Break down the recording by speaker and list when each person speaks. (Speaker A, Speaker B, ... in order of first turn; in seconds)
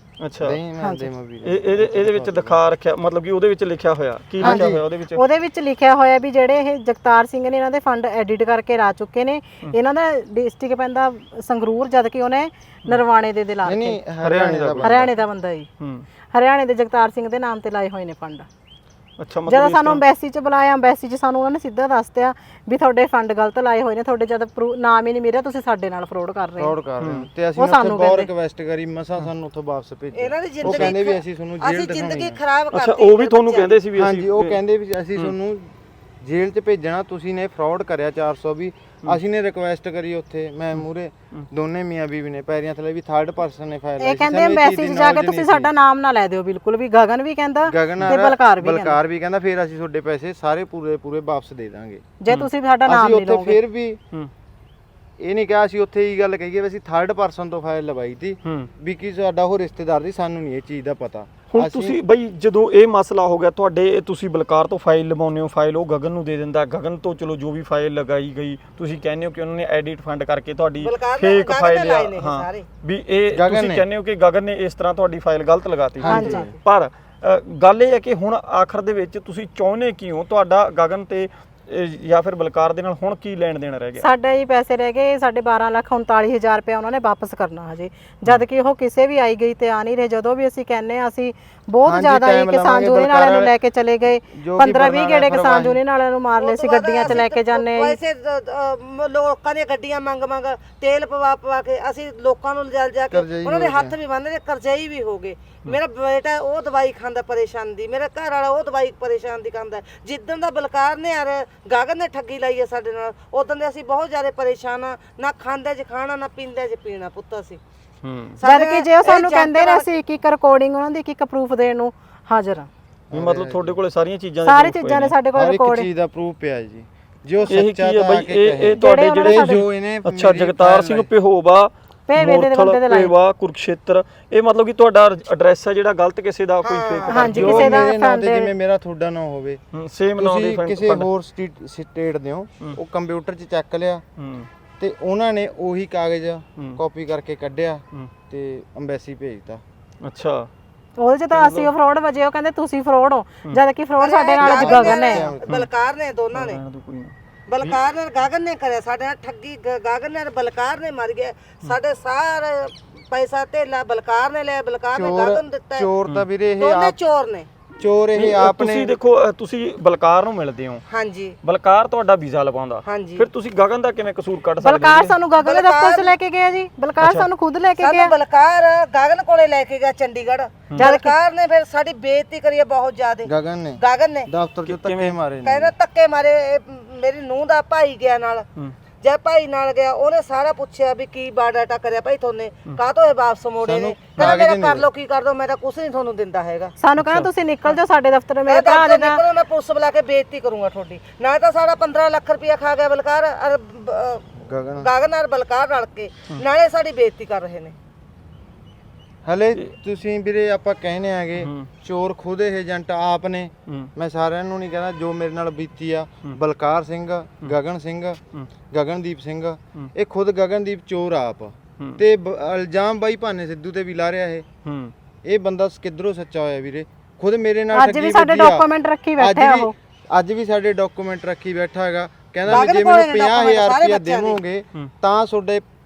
Speaker A: 0.2-0.6, 1.4-5.2, 14.2-15.0, 15.8-16.1, 19.2-20.0, 27.0-27.3, 30.6-31.0, 32.7-34.6, 58.4-58.7, 61.5-84.1, 118.0-118.4, 123.1-125.2, 127.5-137.9, 139.7-141.1, 144.2-144.5, 150.0-150.5, 151.3-151.7, 156.3-157.8, 168.2-170.8, 171.4-175.2, 177.0-177.3, 184.7-185.2, 197.0-197.3, 211.4-211.7, 224.6-224.9
Speaker B: 0.4-2.6, 4.4-4.8, 13.6-15.2, 26.6-32.4, 33.9-45.7, 47.7-52.0, 52.9-54.0, 55.2-62.0, 73.3-73.8, 76.0-76.5, 91.8-93.5, 94.3-95.8, 103.1-104.0, 123.1-123.8, 125.3-131.1, 137.2-139.6, 140.2-144.0, 144.8-149.6, 154.4-155.6, 164.9-167.0, 167.8-168.9, 183.2-185.7, 193.6-194.9, 204.4-204.9, 209.2-224.5, 225.2-235.7
Speaker C: 0.8-1.1, 4.4-14.0, 14.8-15.7, 16.3-18.5, 19.5-26.7, 27.6-28.3, 44.0-49.0, 52.2-53.6, 76.0-76.6, 84.0-98.0, 118.4-122.7, 124.5-125.9, 128.8-129.6, 132.1-133.1, 137.1-138.5, 151.0-155.3, 174.6-178.1, 180.8-181.1, 196.8-199.2, 227.7-229.7
Speaker D: 30.1-33.8, 70.8-72.7, 96.4-117.6, 118.4-119.9, 136.6-137.3, 154.0-156.6, 157.5-165.9, 166.6-167.5, 170.9-171.4, 172.9-173.3, 175.4-176.2, 177.8-184.3, 185.4-188.5, 189.0-196.7, 198.5-207.8, 232.5-234.4